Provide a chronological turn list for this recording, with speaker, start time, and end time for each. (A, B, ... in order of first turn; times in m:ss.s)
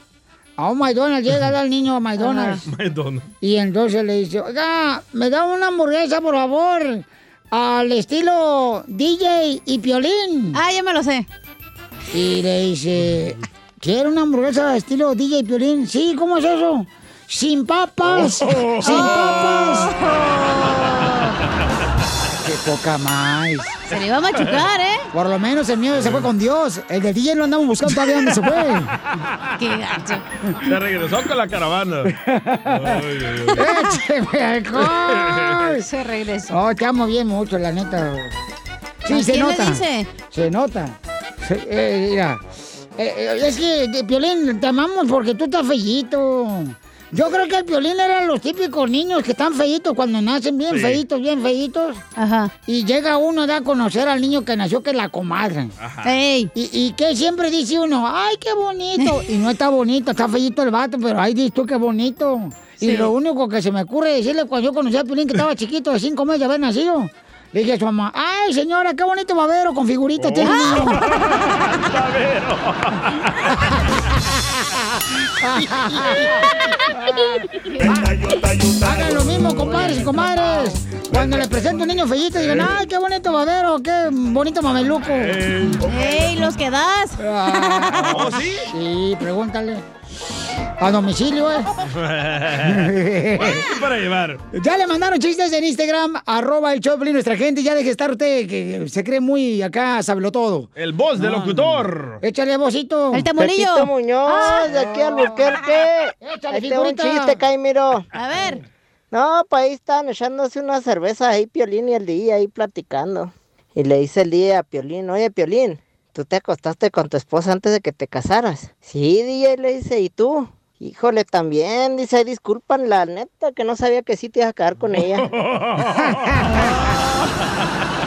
0:00.6-0:02.6 A
0:02.2-0:02.6 B
0:02.6-0:03.3 C
0:03.4-0:10.6 A
0:10.5-0:11.3 B
0:12.1-0:19.9 A
0:18.0-0:19.2 C
0:18.8-0:21.4 B
0:22.4-0:23.8 A
0:23.9-0:25.1 B
0:25.1-0:28.9 A
0:26.0-0:26.3 C
0:29.6-0:30.2 B
0:30.6-0:32.1 C
0:32.1-0:33.0 A
0:32.6-0:33.6 C
0:33.5-0:35.9 A
0:34.9-0:35.7 C
0:35.9-0:36.5 B
0:36.5-0:38.3 A
0:39.0-0:39.8 A
0:39.1-0:40.1 B
0:40.3-0:42.4 A
0:43.0-0:52.0 A
0:50.7-0:51.0 C
0:52.2-0:52.5 B
0:52.7-0:55.7 A
0:55.8-0:56.1 C
0:56.0-0:56.5 B
0:56.6-1:11.0 A
1:02.8-1:03.1 B
1:10.2-1:13.5 C
1:10.7-1:11.5 B
1:13.5-1:14.0 A
1:15.4-1:16.4 A
1:16.9-1:17.3 A
1:17.7-1:18.1 B
1:17.8-1:20.5 C
1:18.8-1:25.8 A
1:21.1-1:21.8 C
1:22.4-1:22.7 C
1:25.1-1:26.4 C
1:25.8-1:27.9 B
1:27.2-1:29.8 A
1:28.0-1:28.7 C
1:30.8-1:31.7 A
1:31.9-1:34.4 C
1:32.6-1:33.7 A
1:34.5-1:43.3 A
1:40.8-1:42.2 C
1:43.1-1:44.7 B
1:43.3-1:48.1 D
1:44.7-1:45.6 A
1:46.2-1:47.4 A
1:48.1-1:48.6 B
1:49.1-2:05.3 D
2:05.0-2:07.0 C
2:06.0-2:06.6 A